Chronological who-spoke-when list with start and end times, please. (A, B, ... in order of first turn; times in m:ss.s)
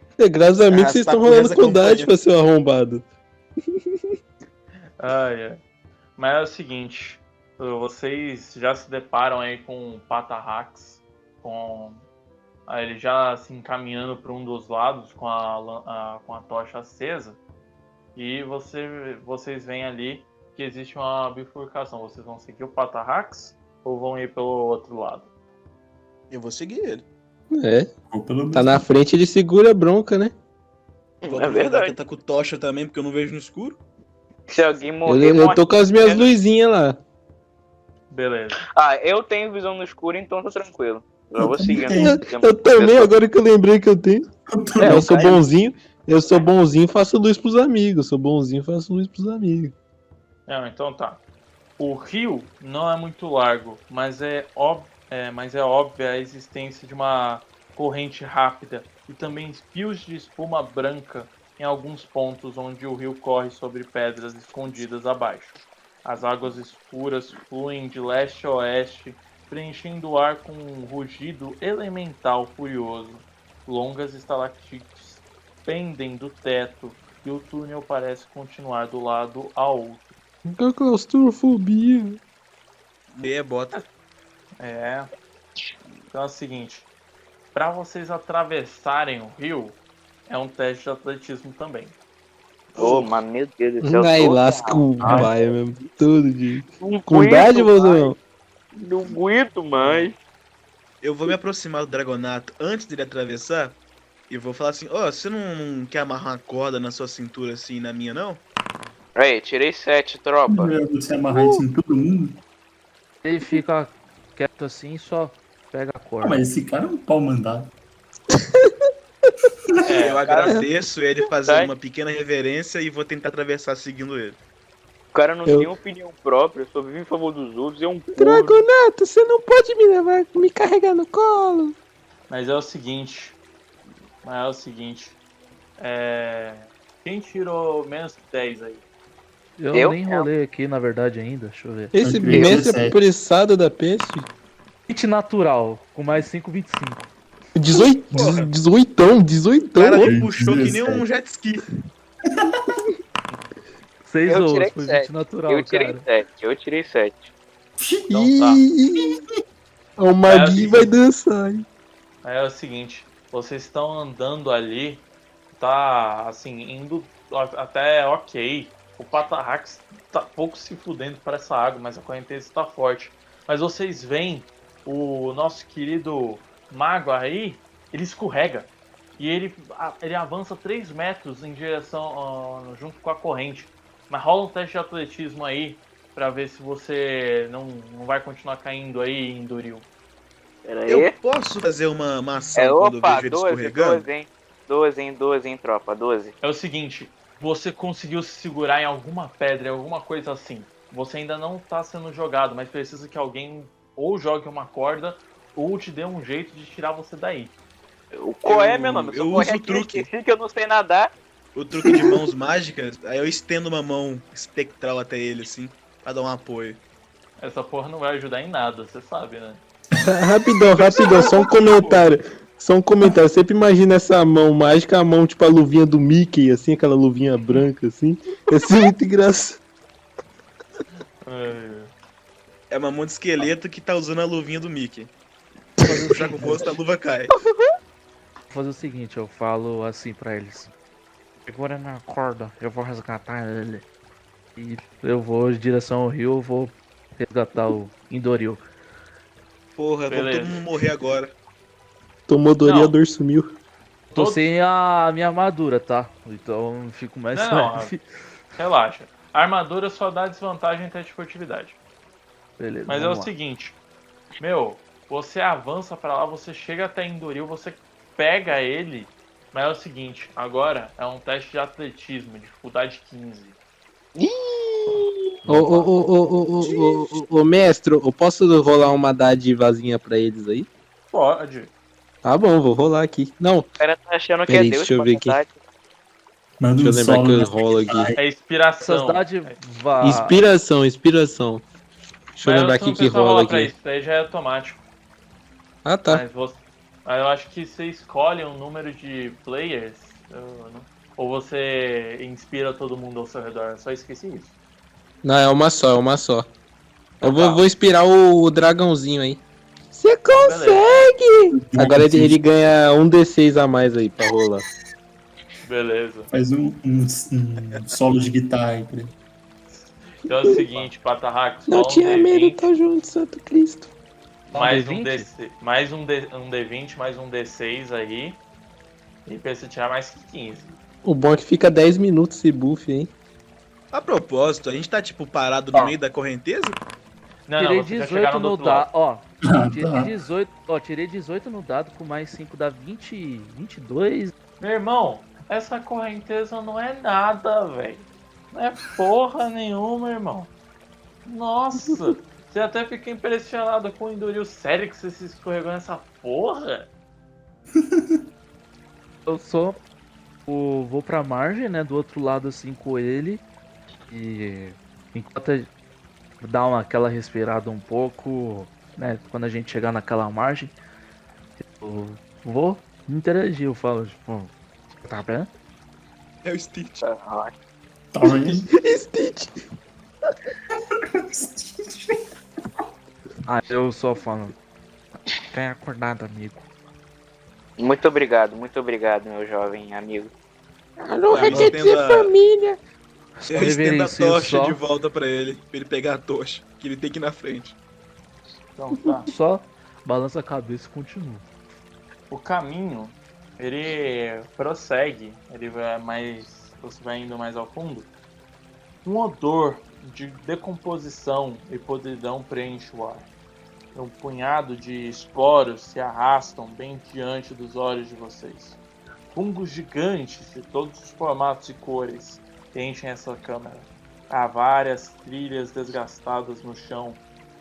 0:00.2-0:03.0 A
0:00.7-0:02.1 B
0:05.0-0:05.6 C
0:06.2-0:12.0 C
0:12.7-0:17.4 C
0:18.2-0:25.3 C
0:26.3-0:27.0 B
0:27.5-0:27.9 A
0:28.1-0:28.8 D
0:28.5-0:30.3 A
0:31.2-0:32.0 E
0:31.3-0:33.8 B
0:34.5-0:36.3 E
0:35.1-0:37.0 A
0:38.1-0:38.6 C
0:38.7-0:43.1 E
0:41.4-0:42.2 D
0:42.0-0:44.3 A
0:44.5-0:45.2 D
0:44.8-0:45.4 E
0:44.8-0:49.7 A
0:50.5-0:51.2 C
0:51.8-1:20.1 C
1:20.4-1:22.2 A
1:23.1-1:23.8 B
1:24.6-1:25.1 C
1:26.1-1:26.9 C
1:27.5-1:32.0 C
1:32.8-1:35.5 E
1:33.8-1:38.2 A
1:35.0-1:35.3 C
1:36.8-1:38.1 E
1:38.7-1:40.2 E
1:39.8-1:40.1 C
1:41.0-1:43.8 B
1:44.3-1:48.4 B
1:49.2-1:50.7 E
1:50.5-1:52.4 D
1:51.3-1:51.6 A
1:53.2-1:56.4 F
1:56.2-1:57.7 D
1:58.3-1:58.7 A
1:59.9-2:00.3 C
1:59.9-2:04.4 B
2:00.1-2:00.6 E
2:01.4-2:01.7 E
2:05.1-2:08.6 E
2:05.5-2:05.7 A
2:08.2-2:11.8 A
2:12.3-2:13.4 C
2:14.2-2:15.2 C
2:15.8-2:18.8 C
2:19.6-2:22.0 F
2:19.7-2:20.3 E
2:21.9-2:24.3 A
2:22.0-2:23.0 D
2:22.3-2:22.7 E
2:24.9-2:27.1 F
2:27.6-2:31.0 A
2:28.1-2:28.5 B
2:29.8-2:31.6 B
2:30.0-2:31.0 D
2:34.0-2:36.0 F
2:34.3-2:37.3 E
2:37.8-2:38.1 D
2:38.1-2:38.6 C
2:38.1-2:39.2 A
2:40.0-2:41.7 A
2:40.2-2:40.9 C
2:42.2-3:09.9 C
3:10.6-3:11.2 E
3:10.9-3:14.0 B
3:12.6-3:16.3 E
3:16.4-3:27.6 C
3:28.1-3:31.1 E
3:28.4-3:30.1 B
3:31.6-3:36.8 B
3:37.4-3:39.6 C
3:40.0-3:49.6 A
3:40.8-3:42.1 C
3:51.2-3:51.9 C
3:52.7-3:55.1 B
3:55.8-3:56.7 F
3:56.1-3:57.3 B
3:58.5-4:00.7 F
4:01.5-4:03.8 F
4:04.6-4:08.6 F
4:09.8-4:11.3 B
4:10.1-4:10.6 C
4:12.3-4:13.6 A
4:12.6-4:13.0 C
4:14.1-4:14.4 C
4:14.1-4:18.0 F
4:17.4-4:17.9 C
4:18.6-4:21.8 C
4:22.6-4:23.3 F
4:22.9-4:23.8 C
4:24.4-4:33.6 C
4:34.2-4:35.3 E
4:35.5-4:35.9 F
4:35.5-4:40.7 A
4:41.1-4:41.7 C
4:42.2-4:43.7 A
4:43.8-4:45.6 E
4:44.5-4:45.4 A
4:46.6-4:48.2 D
4:46.8-4:48.1 A
4:48.2-4:49.6 C
4:48.8-4:50.4 F
4:50.0-4:51.6 A
4:52.4-4:53.7 A
4:52.4-4:54.8 C
4:55.8-4:56.2 A
4:56.1-5:04.5 C
5:05.2-5:06.5 A
5:07.2-5:07.6 C
5:07.2-5:14.6 A
5:10.3-5:11.1 C
5:11.5-5:12.4 D
5:15.6-5:16.3 C
5:16.3-5:19.1 D
5:19.7-5:22.6 C
5:20.3-5:20.6 A
5:21.7-5:23.9 A
5:24.5-5:25.3 F
5:24.5-5:28.4 C
5:29.3-5:30.8 C
5:31.0-5:33.1 A
5:33.9-5:36.8 B
5:37.5-5:38.9 C
5:37.6-5:44.3 F
5:39.5-5:40.1 D
5:44.6-5:50.5 C
5:51.3-5:56.9 C
5:59.3-5:59.8 F
6:00.5-6:03.4 F
6:04.1-6:05.7 F
6:06.4-6:10.8 F
6:11.8-6:14.5 F
6:15.0-6:15.5 F
6:16.4-6:17.0 B
6:17.0-6:17.5 E
6:18.1-6:18.7 D
6:18.2-6:19.5 A
6:21.2-6:22.2 D
6:23.4-6:24.6 F
6:25.5-6:26.6 F
6:27.8-6:30.3 E
6:31.0-6:32.8 A
6:31.3-6:32.3 B
6:33.4-6:34.8 F
6:33.5-6:37.8 B
6:38.8-6:39.3 C
6:39.3-6:41.4 F
6:42.3-6:48.1 C
6:49.0-6:53.3 C
6:53.9-6:58.8 C
6:59.3-7:07.2 C